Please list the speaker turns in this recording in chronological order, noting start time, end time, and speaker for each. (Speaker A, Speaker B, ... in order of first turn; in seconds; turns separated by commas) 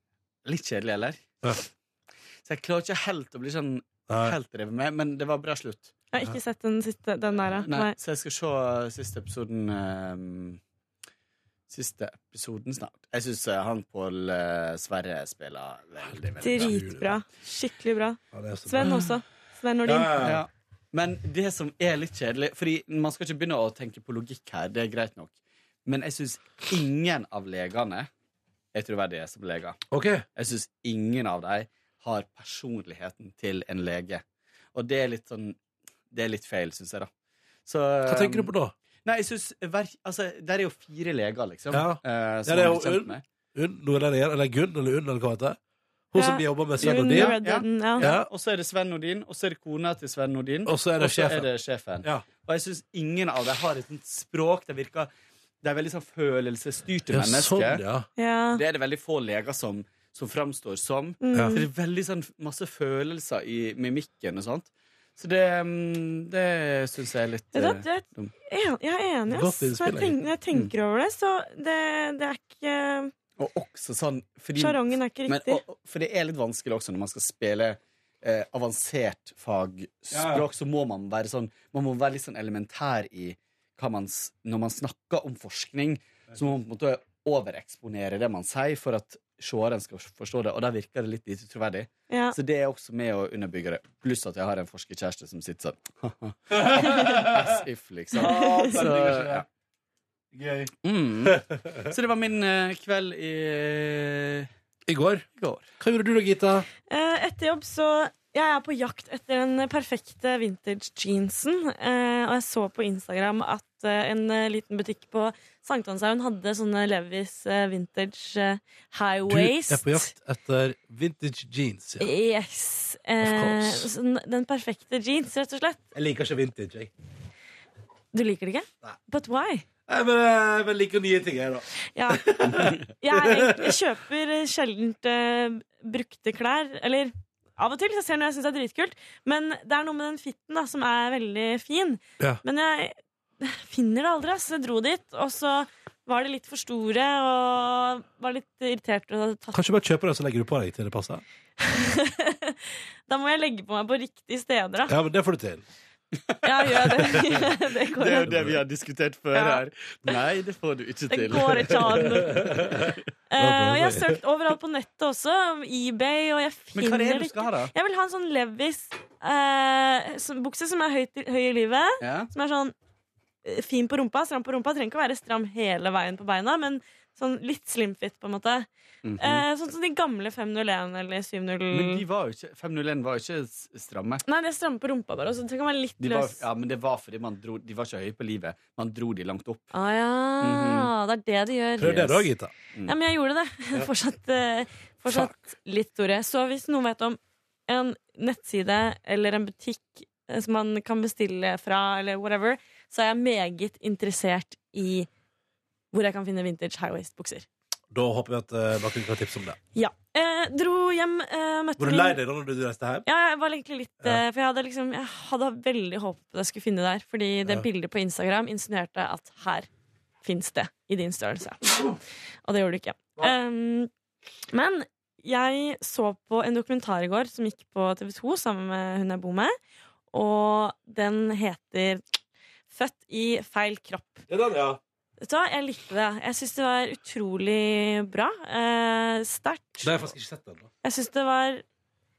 Speaker A: 0.5-1.3, Speaker A: 2.5-5.9, Speaker B: 4.1-4.3, Speaker C: 6.1-8.0, Speaker A: 7.5-10.6, Speaker A: 11.7-16.9, Speaker B: 16.1-17.2, Speaker C: 16.4-20.2, Speaker B: 18.3-19.2, Speaker B: 19.8-20.4, Speaker A: 20.2-28.1, Speaker A: 28.7-29.8, Speaker B: 29.9-30.2, Speaker A: 30.4-34.2, Speaker A: 34.7-35.6, Speaker A: 36.1-37.1, Speaker A: 37.7-38.5, Speaker B: 38.1-38.7, Speaker A: 39.0-43.2, Speaker B: 41.7-45.6, Speaker B: 46.1-47.4, Speaker C: 46.1-48.1, Speaker A: 46.8-55.1, Speaker B: 48.0-48.3, Speaker B: 50.7-51.5, Speaker A: 55.6-57.8, Speaker B: 57.1-58.1, Speaker C: 58.2-58.6, Speaker A: 58.5-68.3, Speaker C: 61.2-61.6, Speaker B: 61.3-61.6, Speaker C: 67.5-73.1, Speaker B: 69.3-70.3, Speaker A: 73.4-99.5, Speaker C: 74.5-75.6, Speaker B: 80.1-80.5, Speaker C: 92.1-92.4, Speaker B: 96.5-97.6, Speaker B: 98.1-99.4, Speaker C: 98.3-98.8, Speaker B: 100.3-100.7, Speaker A: 100.8-104.5, Speaker B: 101.2-101.9, Speaker B: 104.9-105.3, Speaker A: 105.4-105.7, Speaker B: 105.8-106.7, Speaker C: 106.9-120.1, Speaker B: 119.3-122.1, Speaker C: 122.0-125.9, Speaker B: 123.2-123.9, Speaker B: 125.9-126.9, Speaker C: 128.1-129.7, Speaker B: 129.9-133.8, Speaker C: 131.9-132.2, Speaker C: 133.0-149.6, Speaker B: 149.5-151.2, Speaker C: 151.6-154.9, Speaker B: 154.9-155.6, Speaker C: 156.4-158.3, Speaker B: 156.8-157.5, Speaker A: 158.0-162.1, Speaker B: 158.2-158.6, Speaker C: 159.3-159.6, Speaker C: 161.1-172.7, Speaker B: 161.7-164.2, Speaker A: 166.7-167.7, Speaker A: 172.0-172.3, Speaker C: 173.4-178.7, Speaker A: 179.0-179.4, Speaker C: 179.2-182.0, Speaker A: 181.7-184.2, Speaker C: 184.3-186.4, Speaker A: 186.0-189.7, Speaker C: 189.7-192.2, Speaker A: 190.4-190.9, Speaker B: 191.8-192.5, Speaker A: 191.8-192.1, Speaker C: 192.9-205.1, Speaker C: 205.9-207.5, Speaker B: 207.9-209.6, Speaker C: 209.8-212.2, Speaker B: 211.8-213.1, Speaker C: 213.1-219.7, Speaker C: 220.2-223.9, Speaker C: 224.5-229.6, Speaker C: 230.1-232.0, Speaker C: 232.7-234.2, Speaker B: 234.3-234.8, Speaker C: 235.2-240.0, Speaker B: 239.8-240.7, Speaker C: 240.8-241.6